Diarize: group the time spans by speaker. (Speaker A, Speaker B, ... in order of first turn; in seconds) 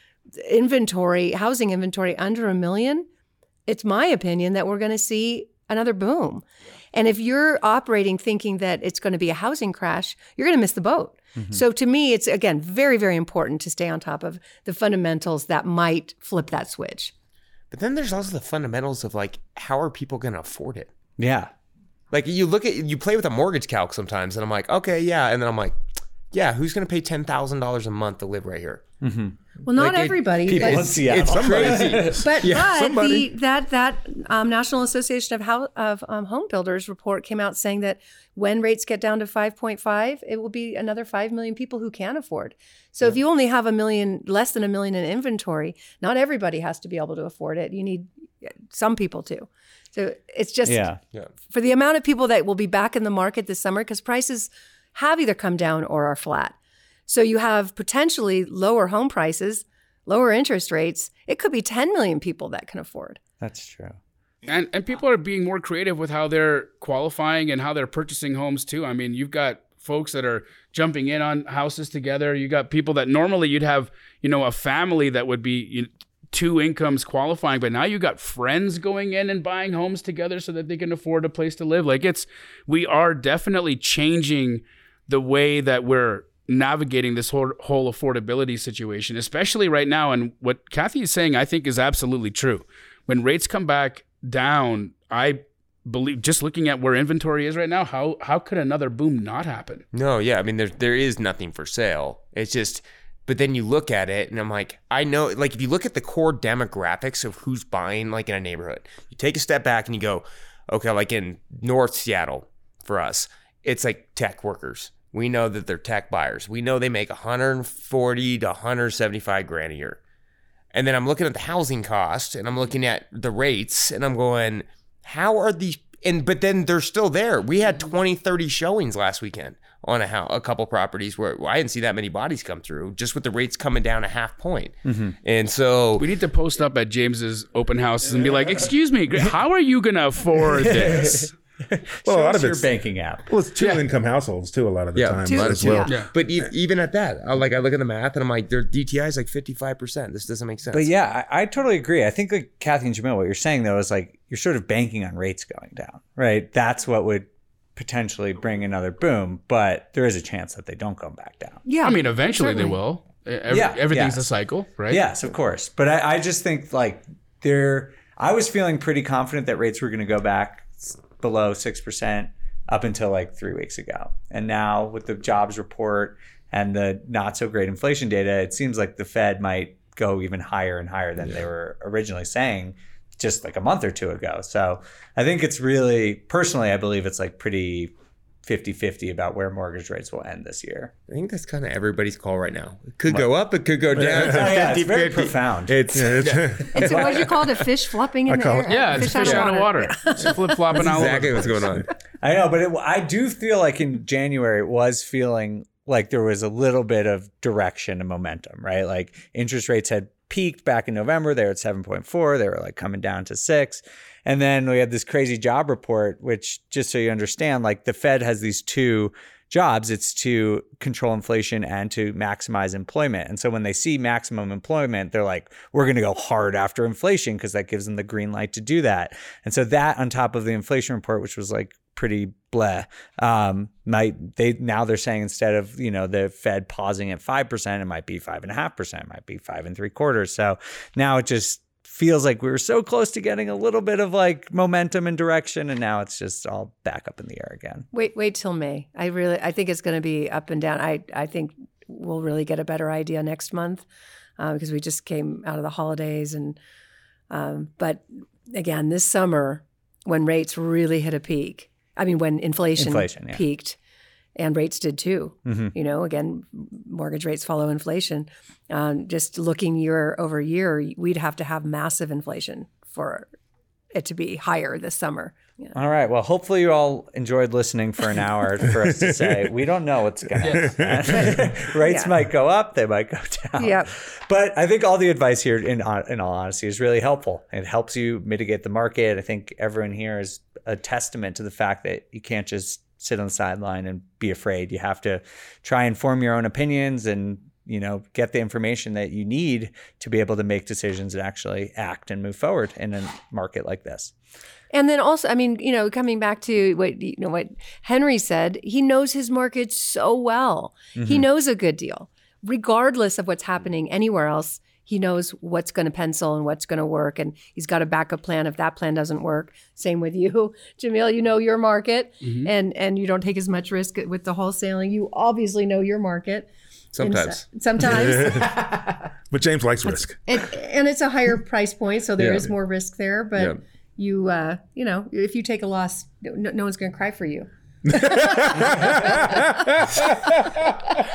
Speaker A: 0.4-3.1, 3.7-17.1, 29.6-31.1, 32.1-50.9, 51.5-56.5, 57.1-63.2, 145.2-146.0, 161.7-162.8, 196.7-200.6, 247.9-253.8, 254.4-256.6, 257.3-263.8, 264.4-273.3, 273.9-275.7, 283.6-283.9, 304.7-326.5, 327.0-328.4, 330.2-337.5
Speaker B: 11.3-11.6, 21.2-21.5, 29.0-29.4, 30.4-32.1, 50.6-51.0, 63.4-64.0, 134.8-135.2, 140.6-143.3, 150.7-161.6, 163.5-164.2, 164.9-187.9, 188.4-190.9, 193.9-195.8, 202.2-247.9, 262.8-263.4, 265.4-265.7, 275.7-304.1, 310.9-311.2, 328.4-329.0
Speaker C: 17.7-20.9, 22.1-25.8, 26.3-28.8, 29.8-32.7, 99.9-120.0, 120.7-136.1, 144.9-150.9, 191.1-197.7, 199.2-199.5, 200.7-201.9, 326.9-327.4, 332.2-332.5
Speaker D: 31.0-33.3, 142.0-142.7, 143.2-146.5, 194.2-194.5, 195.7-197.1, 198.3-199.3, 278.9-279.5, 280.4-281.6, 327.8-328.7, 329.3-330.2, 337.8-340.9
Speaker E: 64.5-99.8, 136.0-141.3, 161.8-165.0, 198.7-201.7, 280.4-280.7, 322.2-322.5